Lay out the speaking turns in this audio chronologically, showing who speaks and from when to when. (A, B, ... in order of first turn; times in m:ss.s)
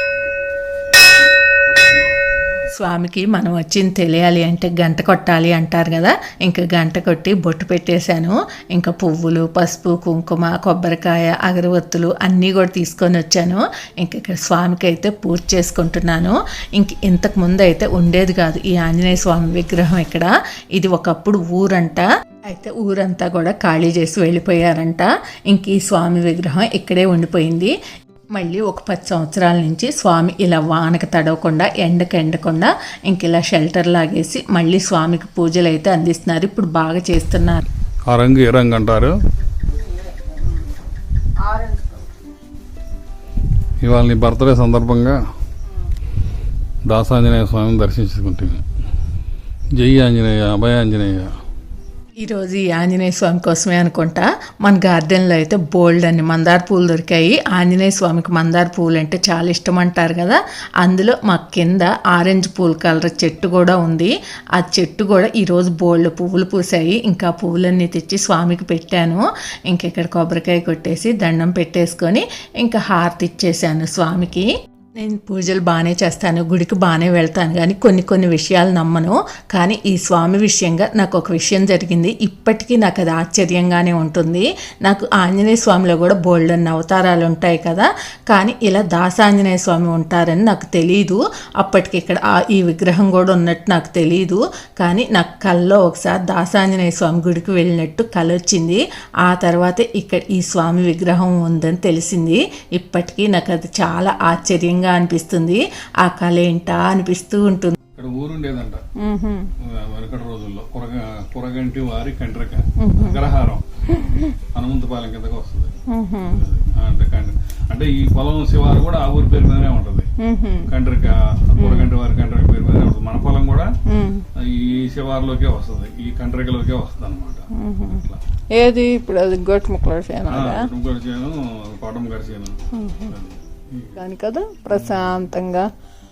0:02.8-0:27.7 A
0:28.4-0:37.7 A
0:38.1-0:39.2 B
0:39.8-0:40.7 C
0:41.4-0:42.1 C
0:43.8-0:45.2 B
0:46.8-0:48.6 B
0:49.8-0:51.3 B
0:52.2-1:47.8 A
1:48.0-1:48.8 B
1:49.0-1:49.5 C
1:49.6-1:53.6 B
1:52.8-1:53.2 C
1:54.0-1:54.3 C
1:54.6-1:55.8 B
1:55.9-1:56.4 C
1:56.3-2:00.1 B
2:00.2-2:00.7 C
2:00.7-2:03.7 B
2:01.6-2:01.9 C
2:03.9-2:04.2 C
2:04.4-2:07.5 B
2:07.5-2:10.7 C
2:10.3-2:12.6 B
2:12.7-2:13.1 C
2:13.1-2:14.0 B
2:14.0-2:15.7 C
2:14.7-2:15.1 B